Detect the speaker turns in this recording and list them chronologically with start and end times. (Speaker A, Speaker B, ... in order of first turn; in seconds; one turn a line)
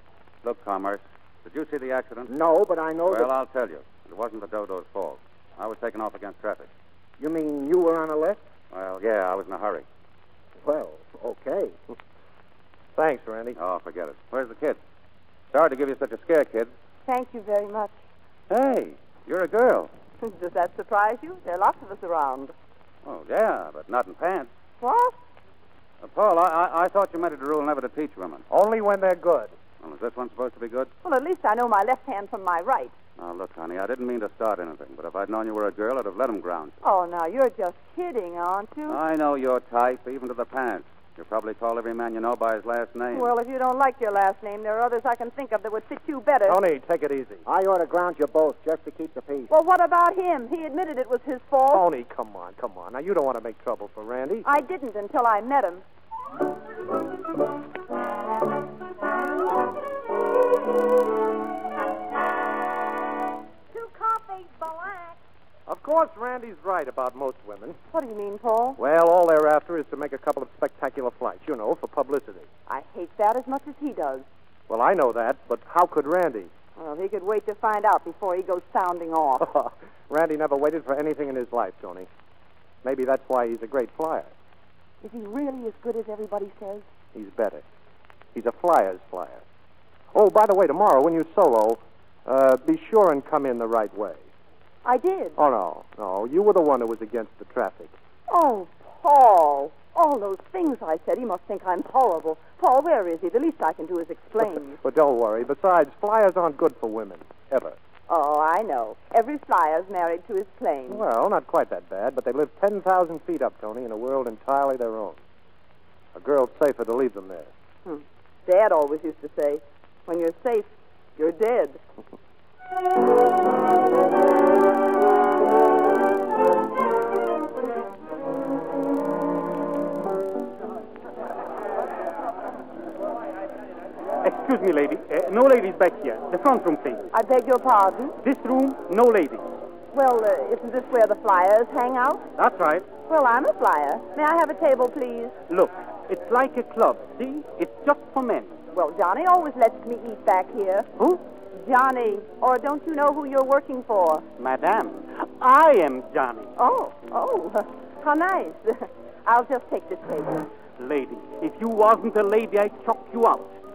Speaker A: 0.4-2.3
Speaker B: 2.3-3.3
Speaker A: 3.0-6.7
Speaker B: 7.2-8.4
Speaker A: 8.7-9.8
Speaker B: 10.6-11.8
Speaker C: 12.9-13.5
Speaker A: 13.5-14.8
Speaker A: 15.5-16.7
Speaker D: 17.1-17.9
Speaker A: 18.5-19.9
Speaker D: 20.2-22.5
Speaker A: 23.0-24.5
Speaker D: 24.8-25.2
Speaker A: 26.0-28.4
Speaker C: 28.5-29.5
Speaker A: 29.8-30.9
Speaker D: 31.0-32.9
Speaker A: 33.2-36.8
Speaker D: 36.8-39.0
Speaker A: 38.9-43.3
Speaker D: 43.1-46.6
Speaker C: 46.5-47.4
Speaker B: 47.4-49.5
Speaker D: 49.5-51.8
Speaker C: 51.7-54.4
Speaker D: 54.4-55.8
Speaker D: 63.8-65.0
Speaker C: 65.7-67.8
Speaker D: 67.9-68.8
Speaker C: 68.8-72.5
Speaker D: 72.7-74.2
Speaker C: 74.7-76.5
Speaker D: 76.8-79.5
Speaker C: 79.5-82.1
Speaker C: 82.8-84.3
Speaker D: 85.0-86.8
Speaker C: 87.1-87.6
Speaker C: 88.3-89.4
Speaker C: 90.1-94.2
Speaker D: 94.8-95.4
Speaker C: 95.4-97.9
Speaker D: 98.3-104.8
Speaker C: 104.8-107.8
Speaker D: 108.1-111.0
Speaker C: 110.9-115.2
Speaker C: 116.1-117.5
Speaker D: 117.8-121.8
Speaker E: 134.2-137.0
Speaker D: 137.1-138.2
Speaker E: 138.2-139.5
Speaker D: 139.9-142.3
Speaker E: 142.4-142.9
Speaker D: 143.1-145.3
Speaker E: 145.5-148.6
Speaker D: 148.7-150.9
Speaker D: 151.5-154.2
Speaker E: 154.4-156.5
Speaker D: 156.6-160.4
Speaker E: 160.8-163.6